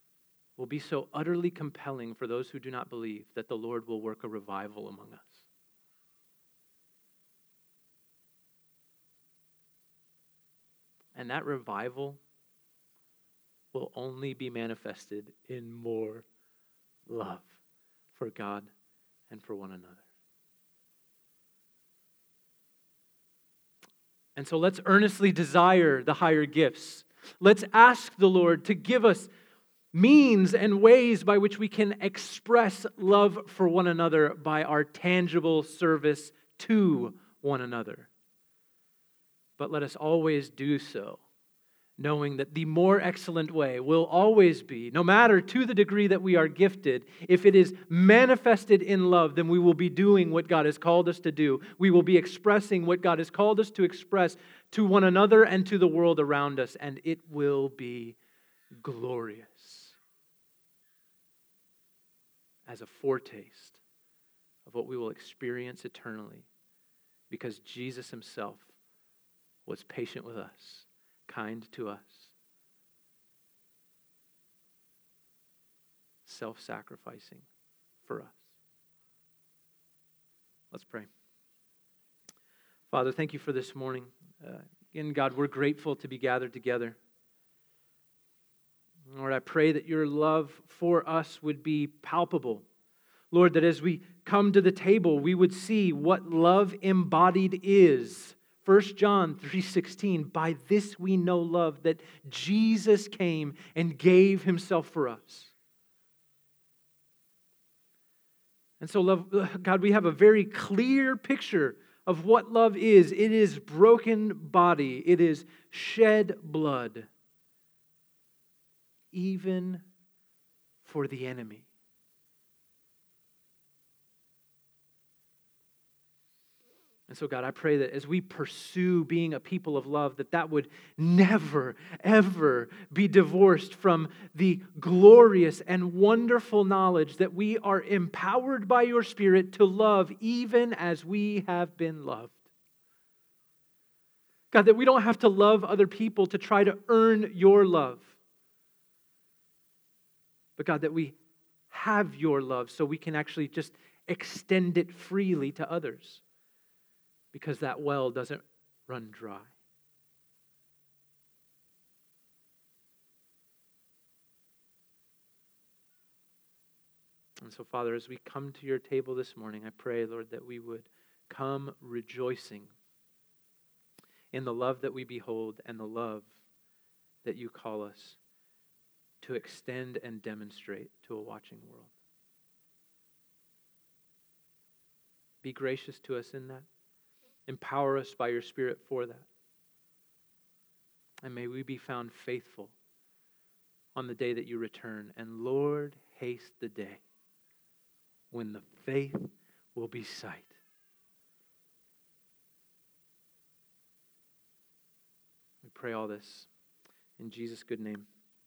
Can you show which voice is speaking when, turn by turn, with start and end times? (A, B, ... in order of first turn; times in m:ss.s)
0:00.6-0:05.4 A
0:11.1-0:12.2 A
0:13.7-0:16.2 A
0:17.1-0:17.6 A
0:18.1-0:18.7 A
0:19.3-0:20.0 A
0:24.4-0:29.3 A
0:29.9-0:38.1 A
0:39.6-0:41.2 A
0:42.0-0:58.2 A
0:58.8-1:00.0 A
1:02.6-1:03.8 A
1:04.6-1:06.5 A
1:07.3-1:08.7 A
1:09.6-1:12.3 A
1:16.2-1:17.4 A
1:18.0-1:18.4 A
1:20.7-1:21.1 A
1:22.9-1:27.0 A
1:29.1-1:32.6 A
1:33.3-1:45.5 A
1:48.8-1:57.1 A
1:59.1-1:59.8 A
2:00.8-2:01.7 A
2:07.1-2:22.4 A
2:24.5-2:28.1 A
2:30.6-2:31.2 A
2:31.7-2:36.2 A
2:37.3-2:39.5 A
2:47.4-2:52.7 A
2:54.3-2:56.3 A
2:57.2-2:58.2 A
2:59.2-3:01.9 A
3:05.4-3:06.7 A
3:07.5-3:09.3 A
3:11.2-3:12.7 A
3:13.9-3:17.0 A
3:18.3-3:20.5 A
3:25.6-3:26.5 A
3:27.2-3:28.0 A